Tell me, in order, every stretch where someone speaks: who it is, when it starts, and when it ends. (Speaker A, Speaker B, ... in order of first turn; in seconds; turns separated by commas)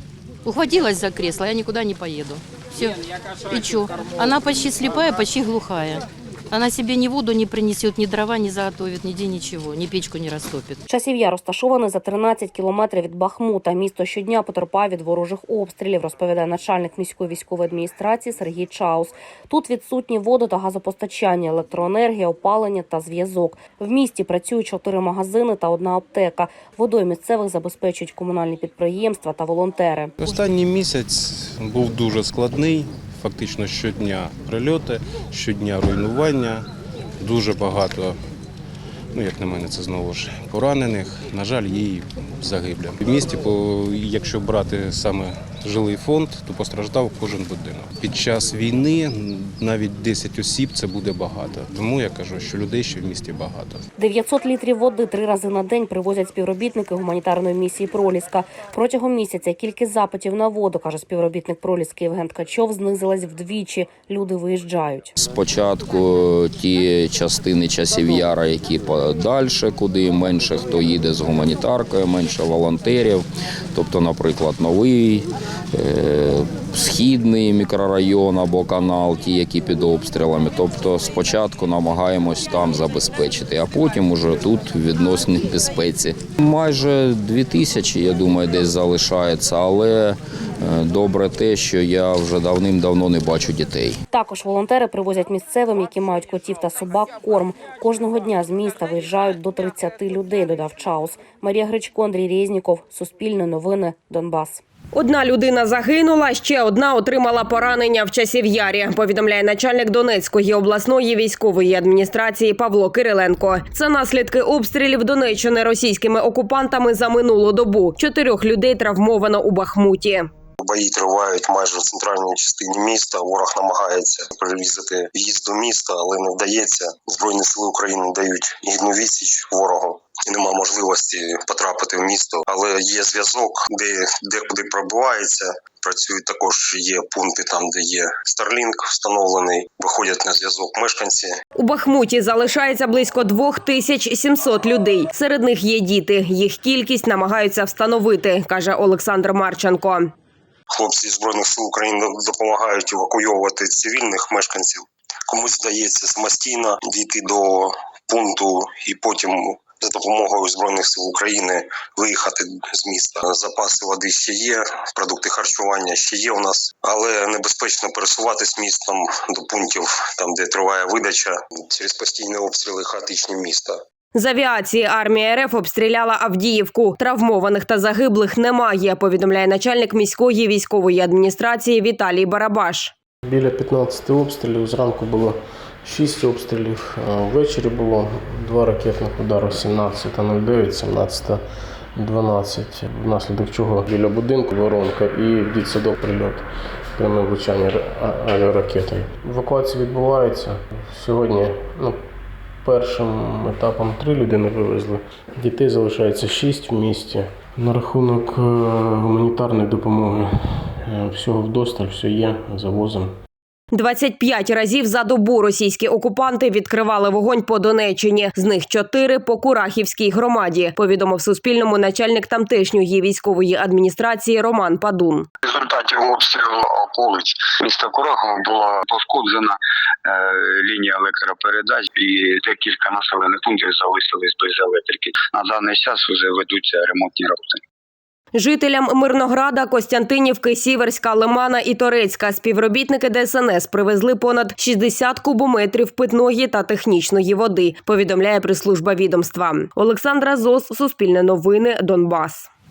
Speaker A: 0.4-10.8, Speaker B: 10.9-30.1, Speaker C: 30.2-36.7, Speaker C: 37.2-38.2, Speaker C: 39.1-53.8, Speaker B: 54.0-65.1, Speaker D: 65.2-94.0, Speaker B: 94.1-104.6, Speaker E: 104.9-120.3, Speaker F: 120.6-141.4, Speaker E: 141.6-150.1, Speaker F: 150.7-173.8, Speaker E: 174.2-182.9, Speaker G: 183.2-191.4, Speaker G: 191.9-202.0, Speaker G: 202.6-213.1, Speaker E: 213.7-225.3, Speaker H: 225.4-237.6, Speaker E: 238.3-252.5